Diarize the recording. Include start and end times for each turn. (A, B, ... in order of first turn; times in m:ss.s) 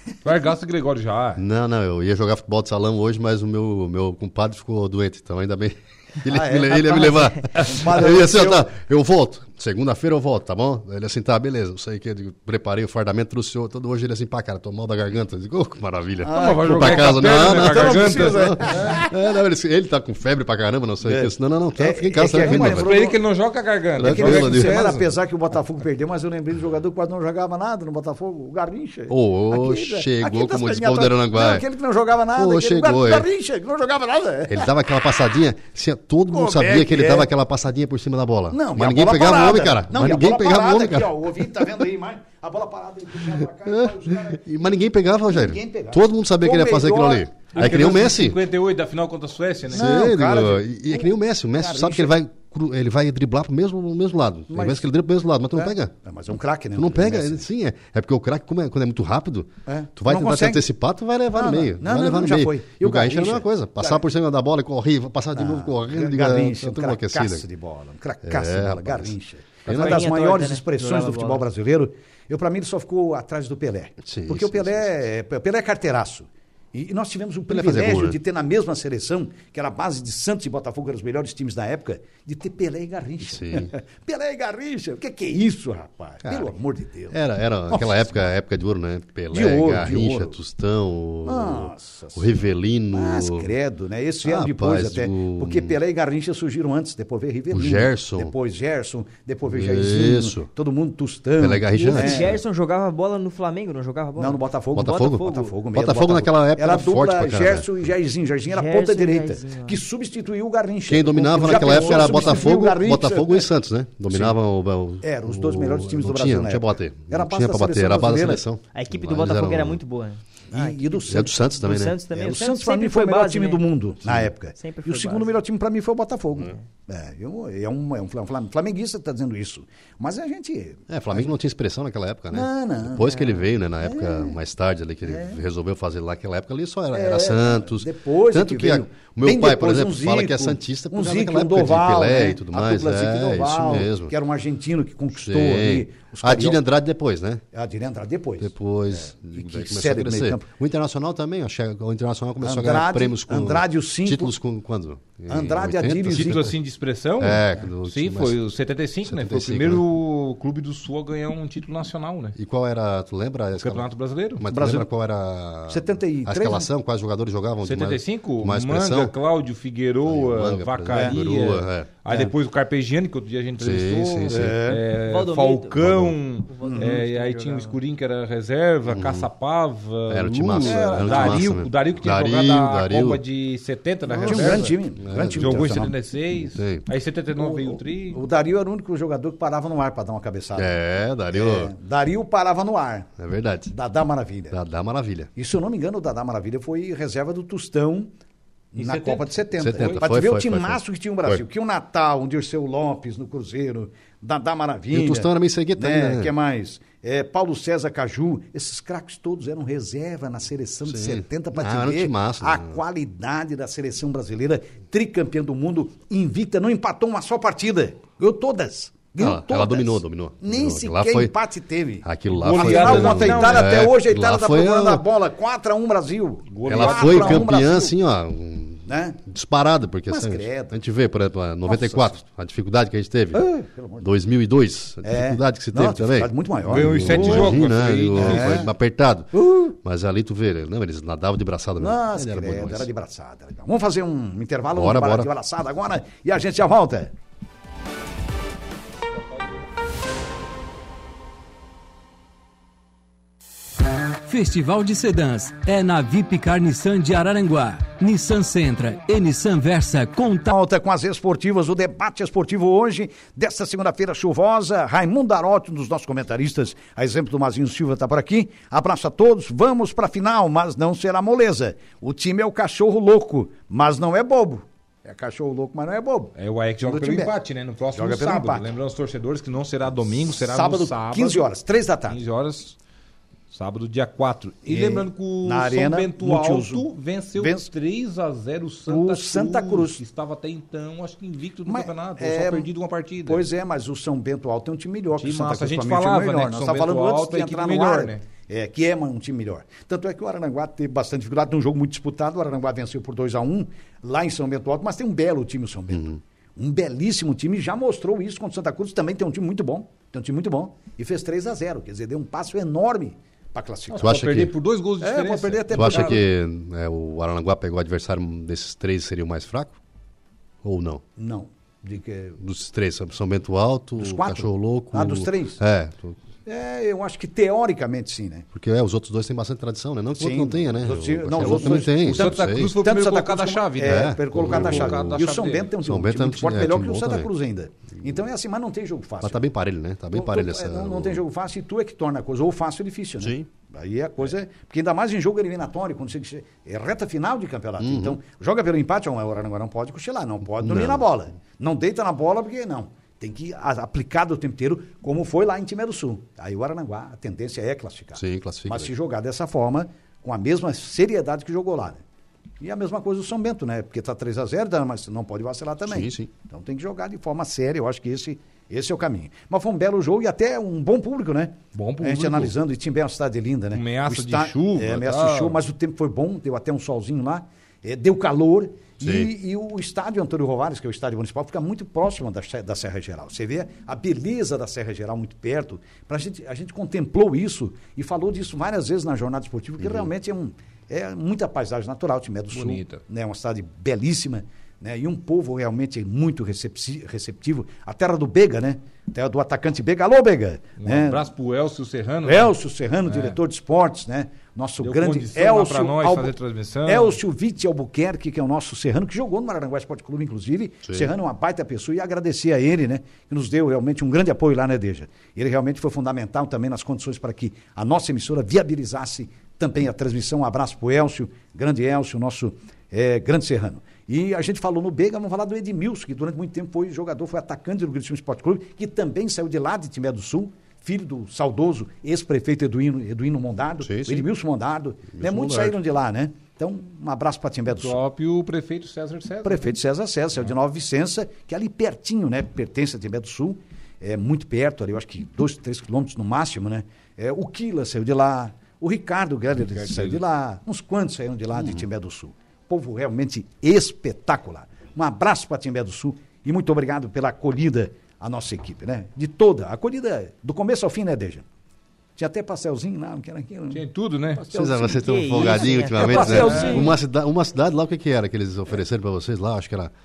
0:00.2-0:01.4 A
0:01.4-0:22.9 B
0:06.3-0:08.7 C
0:16.2-0:19.1 C
0:16.3-0:19.0 A
0:21.0-0:23.2 C
0:22.3-0:25.1 A
0:24.0-0:24.8 B
0:24.0-0:34.7 C
0:29.1-0:31.6 B
0:32.4-0:33.3 B
0:34.5-0:41.8 B
0:36.3-0:37.3 C
0:38.5-0:44.4 C
0:43.3-0:48.4 B
0:45.3-0:48.0 C
0:47.5-0:49.9 A
0:49.7-0:52.1 C
0:49.7-0:55.9 B
0:54.5-0:54.9 C
0:55.5-0:57.4 C
0:56.7-1:07.4 B
0:59.7-1:00.6 C
1:01.3-1:04.0 C
1:05.3-1:27.2 C
1:08.2-1:10.1 B
1:09.7-1:11.4 D
1:14.0-1:14.9 B
1:17.5-1:18.2 B
1:23.2-1:23.7 B
1:26.2-1:26.5 B
1:27.1-1:33.5 B
1:27.7-1:28.1 C
1:29.3-1:30.3 C
1:31.2-1:32.3 C
1:32.9-1:42.3 C
1:34.2-1:35.8 B
1:37.5-1:38.3 B
1:39.5-1:40.5 B
1:41.4-1:42.4 B
1:41.7-1:45.5 D
1:44.2-1:53.5 C
1:44.7-1:47.7 B
1:48.5-1:49.8 D
1:50.9-1:59.8 B
1:51.4-1:52.5 D
1:54.1-1:54.4 C
1:55.0-1:58.4 C
1:58.7-2:01.0 D
2:00.5-2:01.4 C
2:01.0-2:02.0 B
2:01.6-2:03.6 D
2:02.1-2:11.2 C
2:04.0-2:04.3 B
2:04.5-2:05.4 D
2:10.9-2:24.1 B
2:12.3-2:13.2 C
2:13.0-2:13.4 D
2:13.8-2:14.3 C
2:15.0-2:15.4 C
2:16.9-2:26.6 C
2:25.1-2:27.4 B
2:27.5-2:30.4 C
2:28.4-2:36.6 B
2:32.4-2:34.3 C
2:35.3-2:36.5 C
2:36.1-2:42.4 A
2:37.2-2:38.4 B
2:39.0-2:39.8 B
2:42.4-2:49.1 B
2:43.6-2:44.4 A
2:44.5-2:44.9 C
2:45.7-2:46.7 C
2:47.6-3:04.7 A
2:50.1-2:51.9 B
2:53.6-2:54.6 B
2:54.3-2:54.8 C
2:54.9-2:55.9 D
2:55.8-2:56.2 B
2:56.4-2:57.8 D
2:56.6-2:57.0 C
2:58.9-2:59.3 B
3:00.1-3:03.2 B
3:00.6-3:01.6 C
3:04.1-3:05.9 C
3:04.1-3:06.8 B
3:05.4-3:08.2 A
3:07.4-3:10.7 C
3:10.6-3:11.7 B
3:11.3-3:13.1 C
3:13.2-3:13.7 B
3:13.7-3:14.6 C
3:14.5-3:15.3 B
3:15.4-3:18.1 C
3:18.7-3:20.1 A
3:18.7-3:47.9 C
3:19.6-3:21.4 B
3:24.9-3:26.3 B
3:30.9-3:32.8 B
3:39.2-3:41.4 B
3:42.0-3:45.0 B
3:42.4-3:43.9 A
3:46.5-3:47.5 A
3:46.7-4:02.9 B
3:48.9-3:49.2 C
3:50.1-3:50.7 C
3:51.6-3:52.2 C
3:53.3-3:54.1 C
3:55.0-3:58.7 C
3:56.6-3:58.6 A
3:59.3-3:59.7 C
4:01.8-4:07.1 C
4:04.7-4:05.3 B
4:14.2-4:20.5 E
4:20.5-4:37.3 C
4:36.4-4:41.4 A
4:37.9-4:38.7 C
4:40.3-4:42.2 C
4:42.1-4:42.8 A
4:43.5-4:53.4 A
4:44.6-4:46.8 C
4:47.4-4:47.7 C
4:48.9-4:50.0 C
4:51.7-4:52.7 C
4:53.2-5:14.1 C
4:55.1-4:58.2 A
5:05.9-5:06.2 B
5:13.9-5:16.2 A
5:14.0-5:14.5 B
5:15.0-5:16.2 C
5:15.7-5:19.8 B
5:20.6-5:21.0 B
5:21.2-5:22.4 C
5:22.4-5:26.2 B
5:24.0-5:25.6 C
5:26.4-5:28.5 C
5:28.5-5:32.7 B
5:30.2-5:39.4 C
5:31.4-5:35.7 A
5:33.8-5:35.2 B
5:35.8-5:37.3 B
5:39.2-5:41.2 B
5:40.1-6:02.0 C
5:43.2-5:43.5 B
5:47.8-5:48.2 B
5:50.6-5:51.1 B
5:58.2-5:58.9 B
6:02.6-6:41.2 C
6:05.8-6:06.3 B
6:11.7-6:12.5 A
6:13.7-6:15.6 A
6:19.0-6:19.3 B
6:29.8-6:30.1 B
6:32.5-6:33.0 A
6:40.8-6:43.4 A
6:42.2-6:46.3 C
6:44.8-6:47.2 A
6:46.8-7:18.0 C
6:50.8-6:51.1 B
7:13.8-7:14.3 B
7:15.1-7:15.8 B
7:17.8-7:19.7 A
7:19.4-7:41.4 C
7:29.6-7:30.2 A
7:42.2-7:46.9 C
7:43.7-7:44.4 A
7:44.5-7:49.9 B
7:44.8-7:46.9 D
7:46.0-7:46.8 A